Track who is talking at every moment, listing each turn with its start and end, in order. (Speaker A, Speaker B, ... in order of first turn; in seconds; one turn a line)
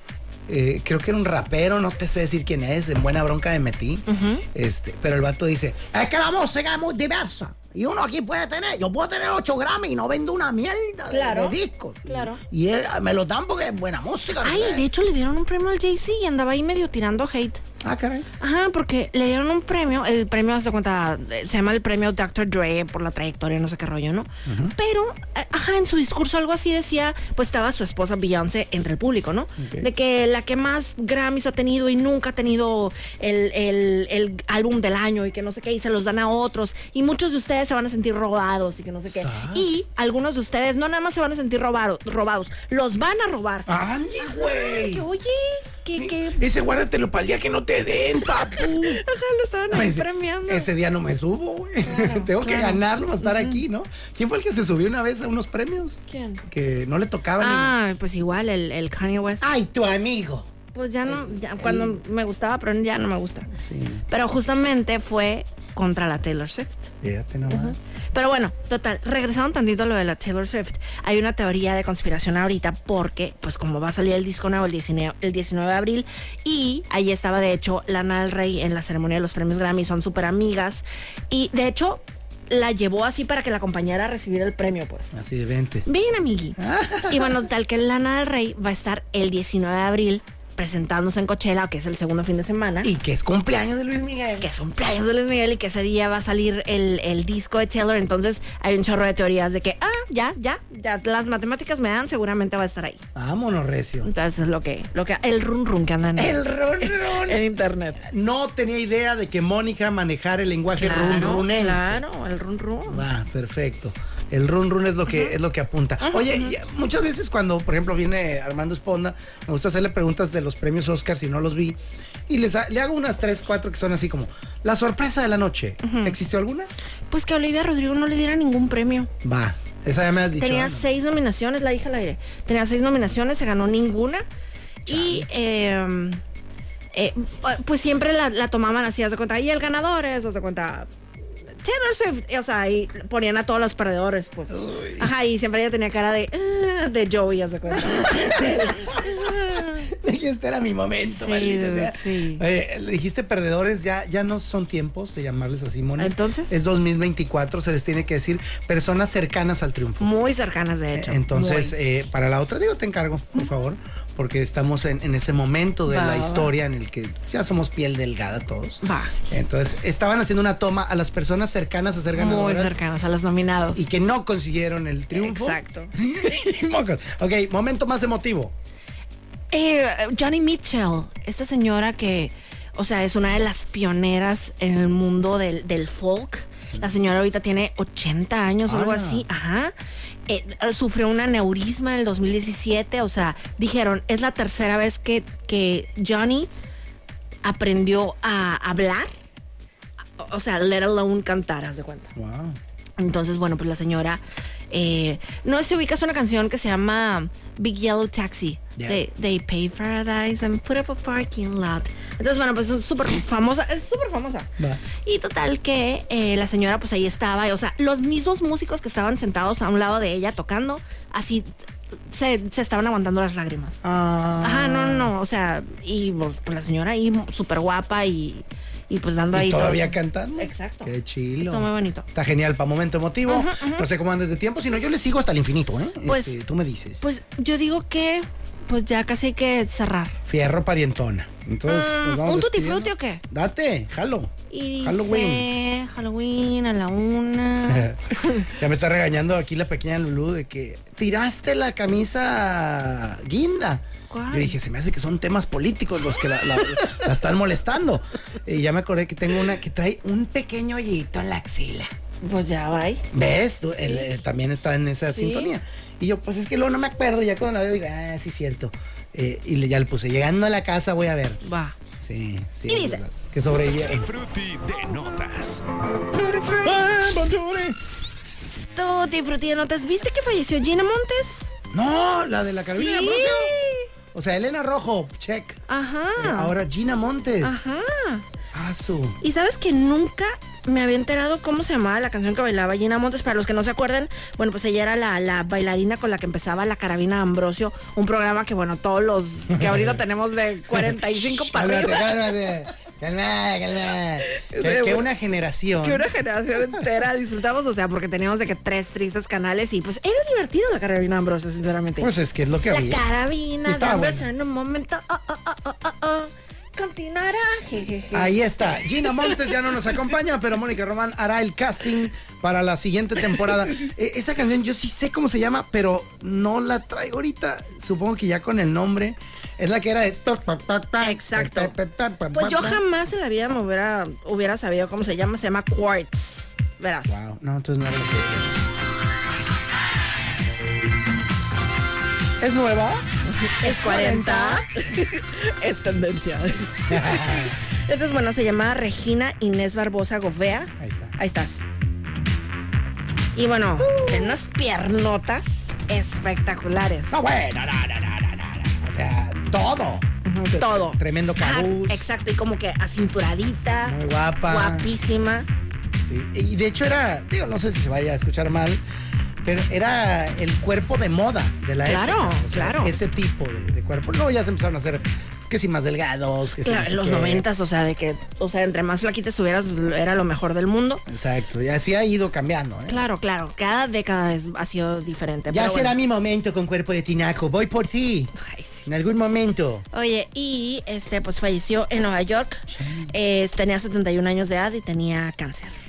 Speaker A: 0.5-14.8
Speaker B: 4.1-4.4
Speaker B: 11.1-12.4
Speaker B: 14.4-17.6
Speaker A: 17.8-18.3
Speaker B: 18.4-46.5
Speaker A: 24.4-24.7
Speaker A: 29.6-29.9
Speaker A: 39.1-39.7
Speaker A: 43.7-45.0
Speaker A: 46.0-49.0
Speaker B: 48.4-50.7
Speaker A: 49.7-57.8
Speaker B: 51.8-53.6
Speaker B: 56.1-56.4
Speaker B: 57.4-59.4
Speaker A: 59.4-60.5
Speaker B: 60.7-63.5
Speaker A: 61.0-62.0
Speaker A: 63.5-64.0
Speaker B: 64.1-66.9
Speaker A: 67.0-67.8
Speaker B: 67.5-85.2
Speaker A: 85.1-85.8
Speaker B: 85.8-86.6
Speaker A: 86.6-87.5
Speaker B: 87.1-92.9
Speaker A: 92.8-94.6
Speaker B: 94.4-103.0
Speaker A: 103.1-104.1
Speaker B: 104.0-108.1
Speaker A: 106.2-107.4
Speaker A: 108.1-112.0
Speaker B: 110.7-113.1
Speaker A: 112.9-126.7
Speaker B: 116.0-116.5
Speaker B: 125.8-126.2
Speaker B: 127.1-129.1
Speaker A: 129.2-130.9
Speaker B: 130.4-134.2
Speaker B: 134.8-136.2
Speaker A: 134.9-135.3
Speaker B: 136.9-140.9
Speaker B: 141.6-149.9
Speaker A: 144.5-145.1
Speaker A: 147.7-160.1
Speaker B: 151.1-152.4
Speaker B: 156.0-156.6
Speaker B: 160.0-161.8
Speaker A: 160.9-172.8
Speaker B: 165.9-166.5
Speaker B: 168.8-169.1
Speaker B: 172.1-173.9
Speaker A: 173.7-178.5
Speaker B: 175.1-175.9
Speaker B: 179.5-189.7
Speaker A: 188.7-189.3
Speaker B: 190.3-196.5
Speaker B: 197.4-199.1
Speaker B: 200.2-202.1
Speaker A: 202.1-202.6
Speaker B: 203.0-221.5
Speaker A: 208.8-209.0
Speaker B: 222.1-223.8
Speaker A: 223.8-225.1
Speaker B: 224.4-232.1
Speaker A: 229.3-237.0
Speaker B: 233.3-233.9
Speaker B: 236.1-236.4
Speaker B: 237.0-240.2
Speaker A: 240.3-245.5
Speaker B: 241.7-243.2
Speaker B: 244.5-248.6
Speaker A: 247.7-261.9
Speaker B: 254.1-254.6
Speaker B: 262.2-263.1
Speaker A: 263.1-271.4
Speaker B: 263.7-264.1
Speaker B: 265.1-265.5
Speaker B: 271.4-271.8
Speaker A: 272.0-274.1
Speaker B: 272.7-273.0
Speaker C: 273.6-275.6
Speaker A: 276.5-277.7
Speaker B: 278.7-281.5
Speaker A: 281.7-283.6
Speaker B: 282.4-283.9
Speaker A: 284.1-285.6
Speaker B: 285.7-286.5
Speaker A: 286.2-287.6
Speaker B: 287.4-288.2
Speaker A: 288.5-289.2
Speaker B: 289.2-302.2
Speaker A: 299.5-299.9
Speaker A: 300.9-306.1
Speaker B: 304.2-305.1
Speaker B: 305.8-312.1
Speaker A: 312.0-313.0
Speaker B: 312.7-319.6
Speaker A: 313.6-314.3
Speaker A: 318.1-332.8
Speaker B: 331.0-331.7
Speaker B: 332.3-337.2
Speaker A: 337.1-338.7
Speaker A: 342.4-343.1
Speaker B: 343.4-351.7
Speaker A: 343.6-344.7
Speaker A: 346.9-347.6
Speaker A: 350.8-351.1
Speaker B: 353.3-357.2
Speaker A: 353.8-354.4
Speaker A: 357.1-362.0
Speaker B: 360.2-365.5
Speaker A: 363.8-364.9
Speaker A: 366.0-368.8
Speaker A: 369.4-377.4
Speaker B: 371.8-372.9
Speaker B: 376.6-381.0
Speaker A: 381.1-383.0
Speaker B: 382.9-385.9
Speaker A: 385.5-388.3
Speaker B: 388.4-388.9
Speaker A: 388.8-389.9
Speaker B: 389.9-395.7
Speaker A: 392.7-393.1